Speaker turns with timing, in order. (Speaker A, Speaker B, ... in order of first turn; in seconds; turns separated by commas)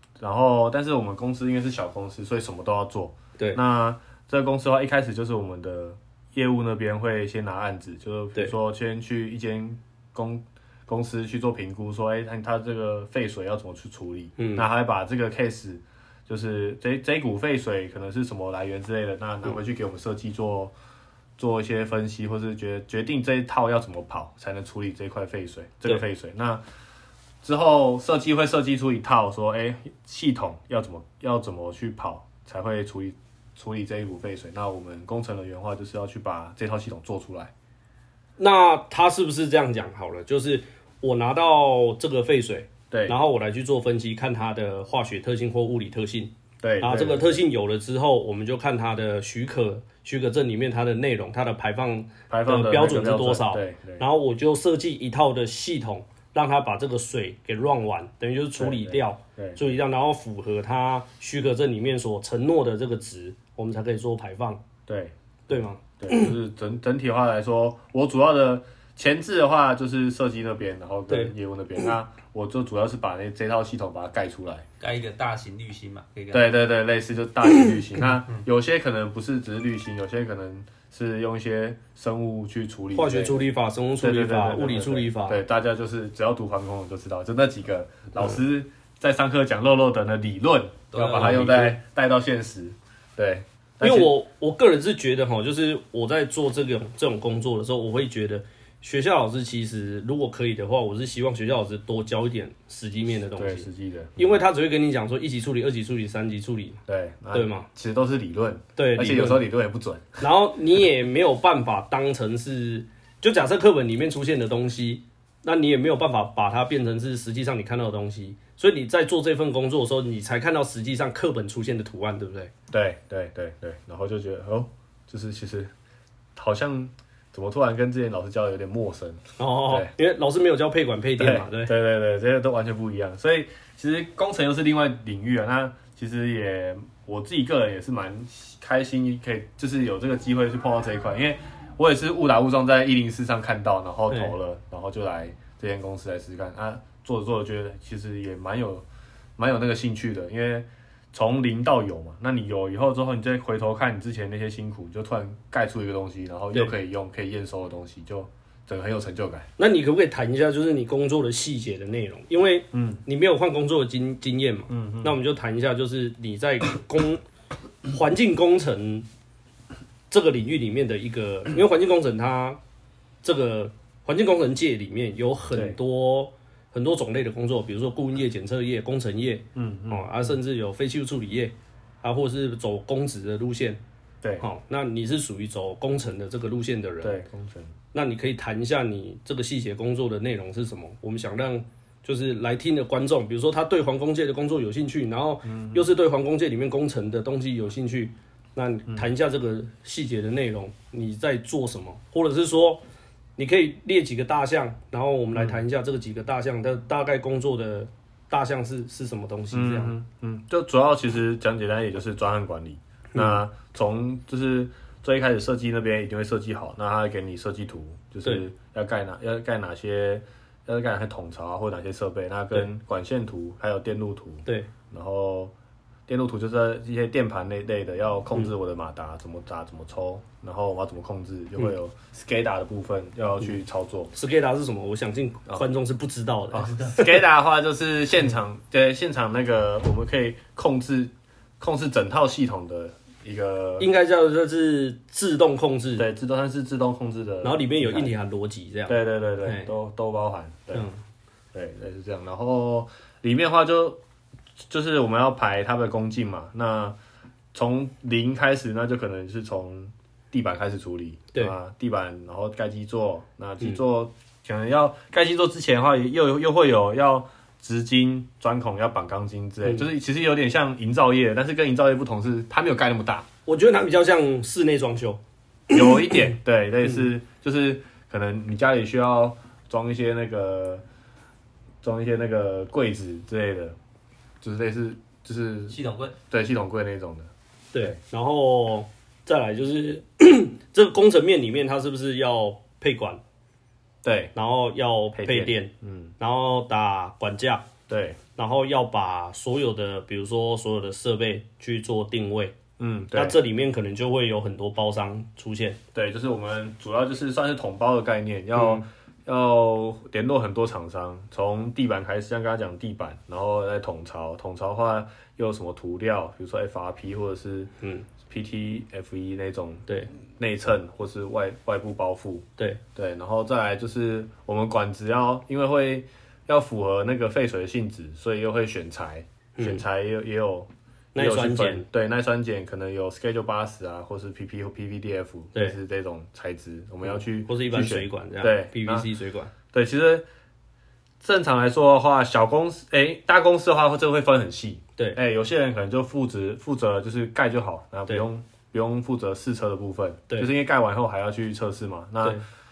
Speaker A: 0.2-20.7, Speaker B: 14.4-14.6, Speaker A: 21.4-26.6, Speaker A: 27.4-37.5, Speaker B: 38.4-64.6, Speaker A: 42.9-43.2, Speaker A: 46.6-47.4, Speaker A: 52.3-54.0, Speaker A: 58.6-59.6, Speaker A: 64.9-65.1, Speaker B: 65.5-66.3, Speaker A: 66.0-74.7, Speaker B: 71.1-71.3, Speaker C: 74.8-76.5, Speaker A: 76.3-83.5, Speaker B: 82.9-85.4, Speaker A: 84.0-94.1, Speaker C: 90.9-91.7, Speaker B: 91.2-91.7, Speaker B: 93.8-106.8, Speaker A: 103.4-104.4, Speaker A: 106.9-110.2, Speaker B: 107.3-107.7, Speaker B: 108.8-109.4, Speaker B: 110.2-122.5, Speaker A: 122.7-125.7, Speaker A: 126.3-129.9, Speaker B: 129.4-131.7, Speaker A: 131.2-148.8, Speaker B: 144.1-144.3, Speaker A: 149.4-159.5, Speaker B: 159.6-167.2, Speaker A: 162.7-163.0, Speaker A: 164.7-165.2, Speaker B: 167.9-169.1, Speaker B: 170.1-172.6, Speaker B: 173.2-183.8, Speaker A: 175.5-175.8, Speaker A: 179.5-180.3, Speaker B: 184.4-187.2, Speaker A: 187.0-187.7, Speaker B: 187.9-202.8, Speaker A: 195.4-195.8, Speaker B: 203.4-209.9, Speaker A: 209.5-225.5, Speaker B: 213.1-213.4, Speaker A: 226.1-234.1, Speaker B: 234.1-237.2, Speaker A: 236.5-243.9, Speaker B: 243.8-246.1, Speaker A: 246.0-248.1, Speaker B: 247.4-249.7, Speaker A: 248.9-250.9, Speaker B: 250.7-251.0, Speaker A: 251.5-254.0, Speaker A: 254.7-257.0, Speaker A: 257.5-273.3, Speaker B: 273.4-275.2, Speaker A: 275.7-280.8, Speaker A: 281.8-283.8, Speaker A: 284.4-285.8, Speaker C: 285.7-286.2, Speaker A: 286.3-288.0, Speaker B: 287.7-293.2, Speaker A: 294.0-294.3, Speaker B: 294.3-297.7, Speaker A: 295.1-296.1, Speaker A: 297.9-298.2, Speaker B: 298.4-302.6, Speaker A: 302.8-303.4, Speaker B: 303.1-305.8, Speaker A: 305.9-317.7, Speaker B: 308.6-308.8, Speaker B: 317.8-318.1, Speaker A: 318.2-339.1, Speaker B: 319.9-320.1, Speaker B: 329.6-329.8, Speaker B: 331.1-331.9, Speaker B: 337.0-339.5, Speaker A: 339.7-340.2, Speaker A: 341.2-352.4